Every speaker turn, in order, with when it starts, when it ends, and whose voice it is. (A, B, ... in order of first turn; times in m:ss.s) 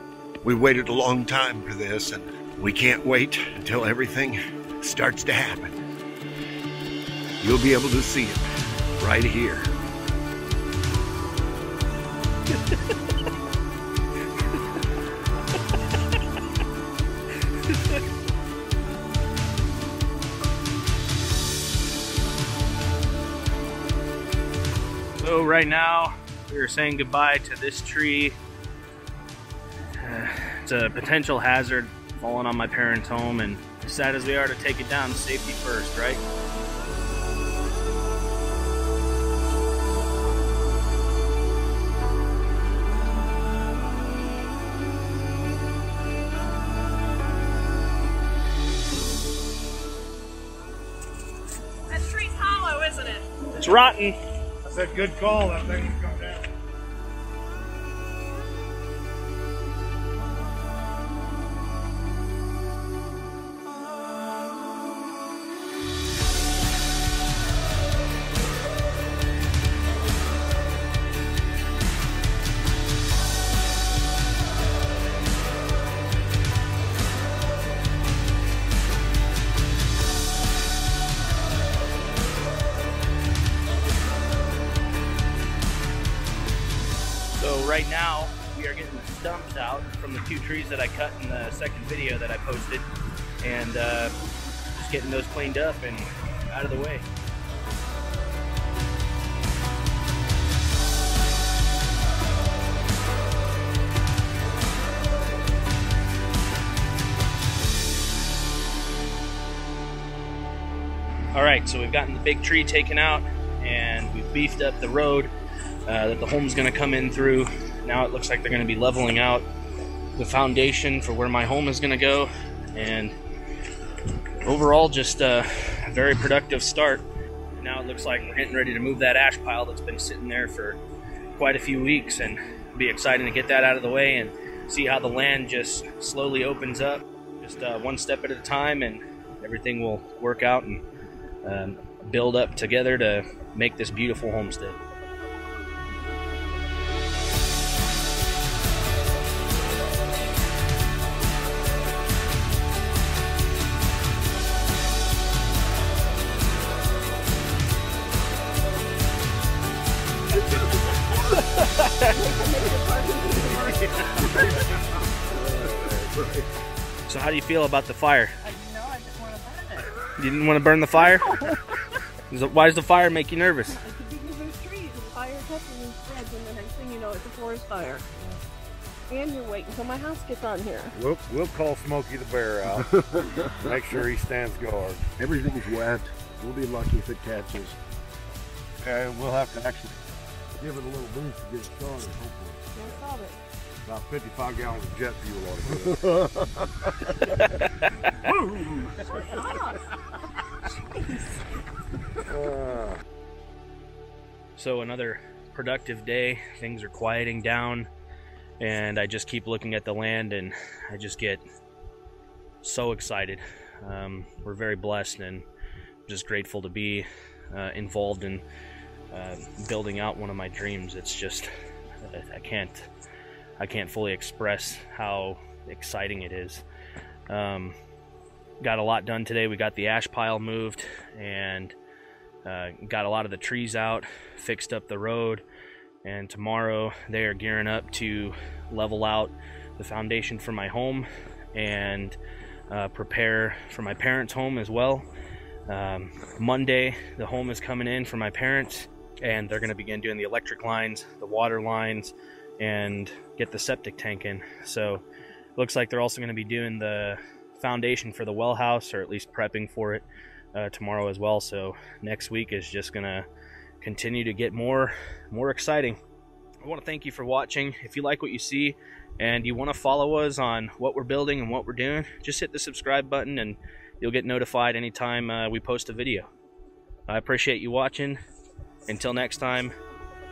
0:00.4-0:05.7 A
0:07.4-0:08.4 A
0:09.0-0:09.7 A
0:15.9-0:16.2 B
0:17.5-0:18.0 B
0:25.2-0:28.4 B
0:30.0-0:36.2 B
0:51.9-0:53.4 C
0:53.5-0:54.2 B
0:54.7-0:56.4 D
1:27.3-1:32.9 B
1:33.4-1:34.1 B
1:34.8-1:37.1 B
1:51.3-1:55.3 B
1:55.9-1:59.5 B
2:00.2-2:03.2 B
2:04.4-2:07.0 B
2:07.6-2:10.8 B
2:11.4-2:20.8 B
2:21.4-2:24.8 B
2:40.4-2:42.2 B
2:42.0-2:44.8 C
2:45.3-2:46.3 D
2:47.1-2:48.4 B
2:48.4-2:49.9 C
2:50.2-2:51.6 B
2:51.3-2:51.6 C
2:52.3-2:53.8 B
2:53.7-2:58.1 C
2:59.1-3:00.9 C
3:00.9-3:05.1 D
3:03.0-3:03.6 A
3:05.2-3:07.8 A
3:08.8-3:10.0 D
3:10.6-3:13.1 D
3:12.8-3:13.4 C
3:13.9-3:16.5 D
3:17.1-3:18.3 B
3:18.7-3:19.1 D
3:19.1-3:19.9 C
3:21.0-3:21.2 C
3:22.2-3:23.0 D
3:24.6-3:27.9 B
3:28.6-3:31.4 B
3:32.6-3:35.5 B
3:36.1-3:38.4 B
3:39.1-3:41.5 B
3:42.0-3:42.9 B
3:43.6-3:46.6 B
3:47.3-3:47.8 B
3:48.6-3:51.8 B
3:52.4-3:55.4 B
3:56.0-4:02.2 B
4:02.7-4:05.1 B
4:05.7-4:15.0 B
4:15.6-4:23.3 B
4:23.8-4:26.0 B
4:26.6-4:36.3 B
4:37.1-4:38.2 B
4:38.9-4:39.7 B